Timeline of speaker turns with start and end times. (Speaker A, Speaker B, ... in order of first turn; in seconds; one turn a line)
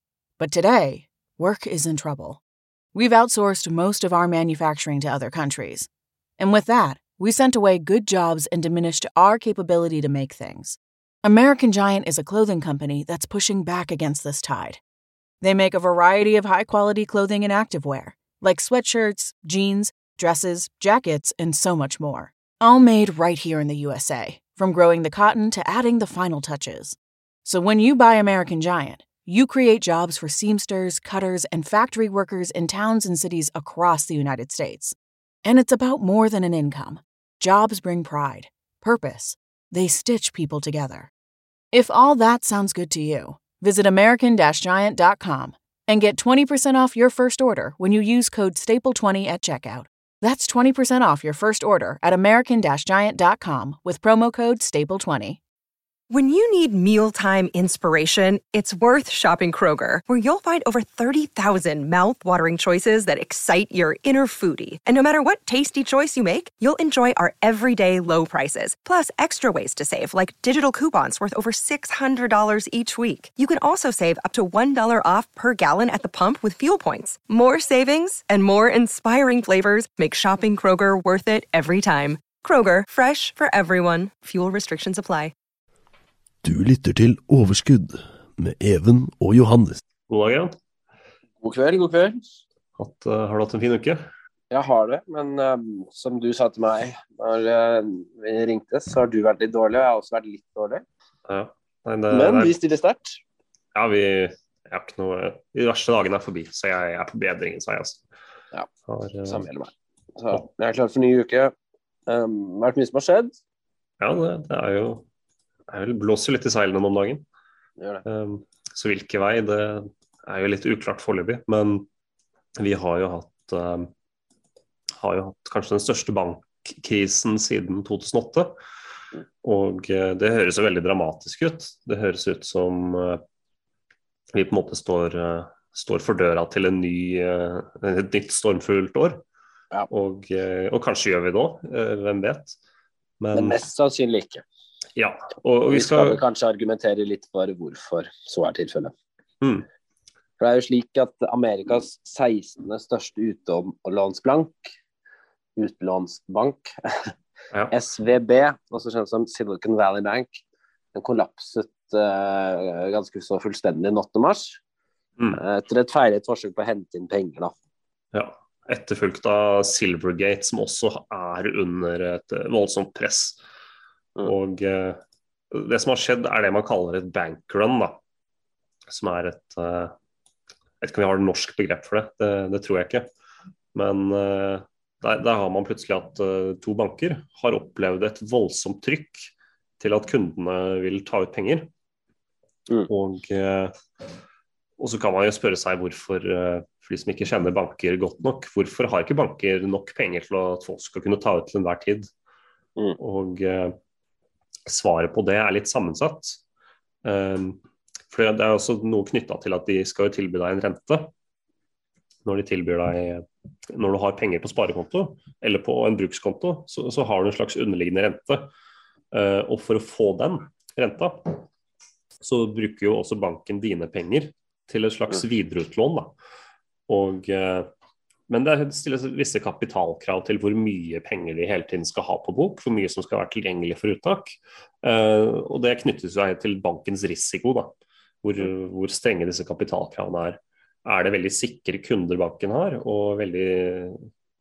Speaker A: 0.4-2.4
Speaker A: 2.9-14.8
Speaker A: 15.4-41.1
Speaker A: 41.7-55.4
Speaker B: 56.1-85.3
Speaker C: 86.4-89.8
Speaker D: 90.1-90.5
Speaker E: 91.4-92.2
Speaker D: 92.8-94.1
Speaker E: 94.5-100.8
Speaker D: 101.3-102.5
Speaker E: 102.1-103.2
Speaker D: 103.8-108.0
Speaker D: 108.9-109.5
Speaker E: 109.3-111.5
Speaker E: 112.1-113.3
Speaker D: 114.0-115.0
Speaker D: 115.7-117.2
Speaker D: 118.1-121.9
Speaker D: 122.6-123.9
Speaker D: 125.0-128.5
Speaker D: 129.4-133.2
Speaker D: 134.3-139.2
Speaker D: 139.9-142.6
Speaker D: 143.2-143.6
Speaker E: 143.3-144.4
Speaker D: 145.0-146.2
Speaker E: 145.7-148.9
Speaker E: 150.4-154.7
Speaker E: 155.6-157.1
Speaker E: 157.7-160.4
Speaker E: 160.9-164.6
Speaker E: 165.3-167.5
Speaker D: 168.1-173.4
Speaker D: 174.2-175.0
Speaker D: 175.5-178.0
Speaker D: 178.9-179.9
Speaker D: 180.8-183.1
Speaker D: 183.8-191.7
Speaker D: 192.9-193.8
Speaker D: 194.8-202.1
Speaker D: 203.0-203.8
Speaker D: 204.7-206.4
Speaker D: 207.0-211.1
Speaker D: 212.3-218.5
Speaker D: 219.1-221.4
Speaker D: 222.2-226.1
Speaker D: 226.9-227.7
Speaker D: 228.3-237.7
Speaker D: 238.2-244.0